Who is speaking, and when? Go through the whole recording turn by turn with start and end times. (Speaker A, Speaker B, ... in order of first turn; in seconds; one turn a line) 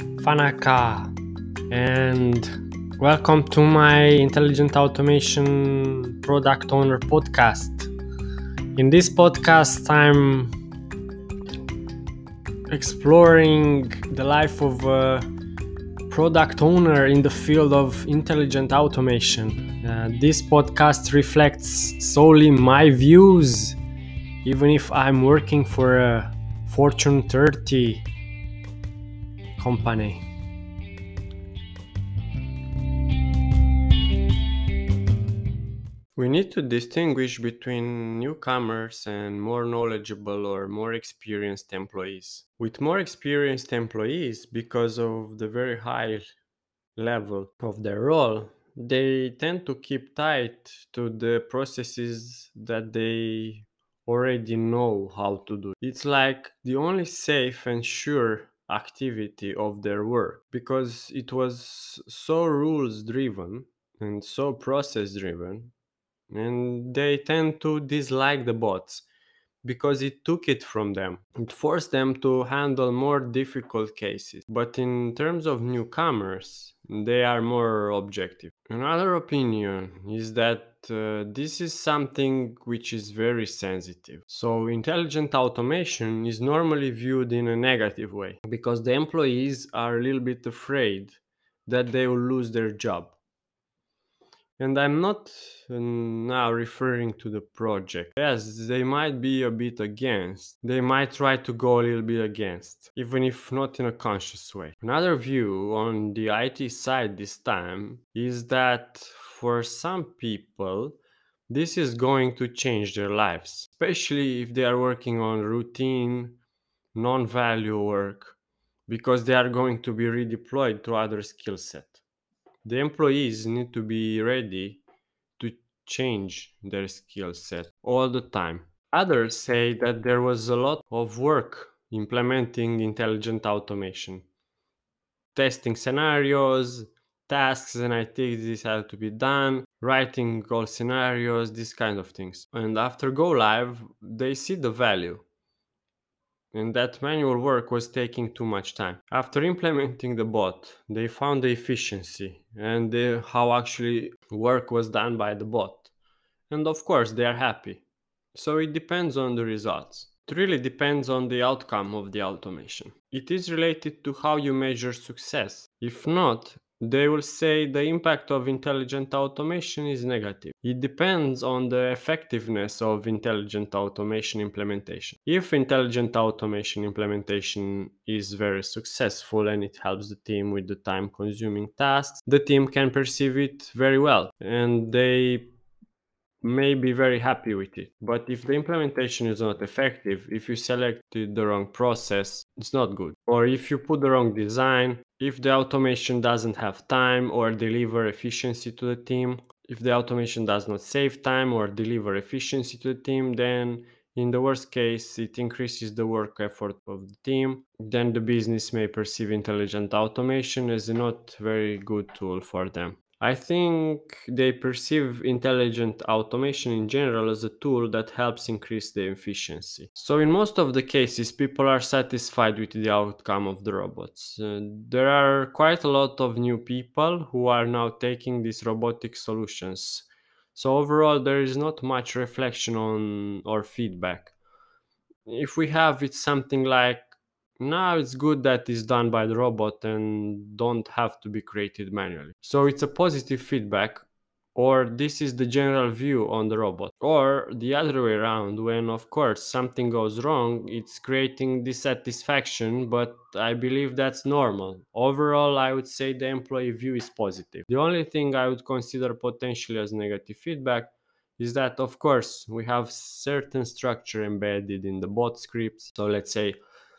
Speaker A: 0.2-1.1
Speaker A: 1.7-7.9
Speaker A: 8.8-10.5
Speaker A: 12.7-15.3
Speaker A: 16.1-23.8
Speaker A: 24.4-28.0
Speaker A: 29.6-30.2
Speaker A: 36.1-46.2
Speaker A: 47.0-65.7
Speaker A: 66.3-69.0
Speaker A: 69.6-93.2
Speaker A: 94.6-111.0
Speaker A: 111.5-116.4
Speaker A: 116.9-118.3
Speaker A: 118.9-122.0
Speaker A: 122.6-124.8
Speaker A: 125.4-134.2
Speaker A: 135.3-145.2
Speaker A: 146.5-155.9
Speaker A: 156.5-157.8
Speaker A: 158.3-185.5
Speaker A: 186.4-234.3
Speaker A: 235.2-266.6